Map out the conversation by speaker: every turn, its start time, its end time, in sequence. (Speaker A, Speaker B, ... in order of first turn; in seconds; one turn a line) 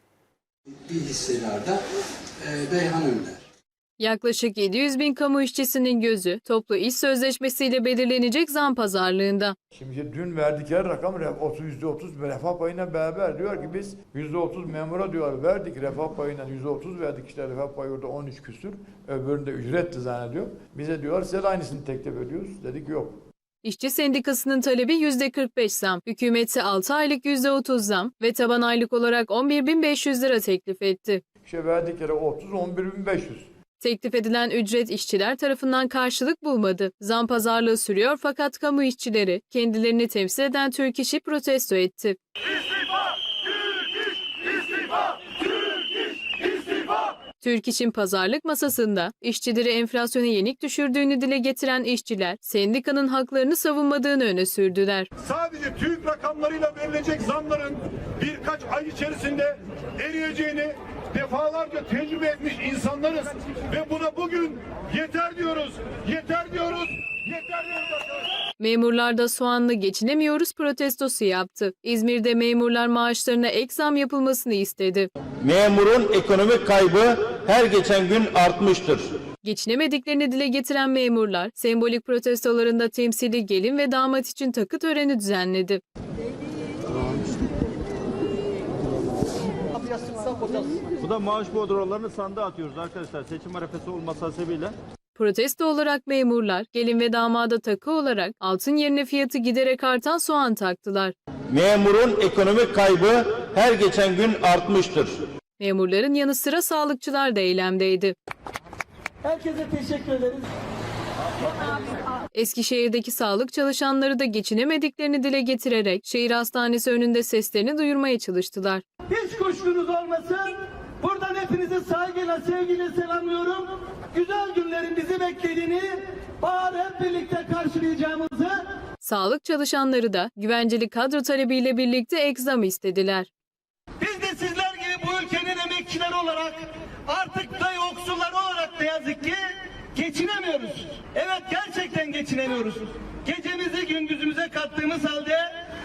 Speaker A: 0.8-1.8
Speaker A: 2.4-3.4
Speaker B: 4.0-9.5
Speaker C: 9.7-23.2
Speaker B: 23.6-31.2
Speaker C: 31.4-33.5
Speaker B: 33.8-42.2
Speaker B: 47.4-55.1
Speaker D: 55.2-68.2
Speaker B: 68.6-75.1
Speaker E: 75.4-79.1
Speaker B: 79.4-85.8
Speaker F: 91.0-94.7
Speaker B: 95.2-101.1
Speaker E: 101.5-105.2
Speaker B: 105.6-108.1
Speaker G: 109.2-110.5
Speaker B: 112.3-118.8
Speaker G: 119.1-128.6
Speaker B: 129.0-133.3
Speaker G: 134.0-139.4
Speaker G: 139.9-145.5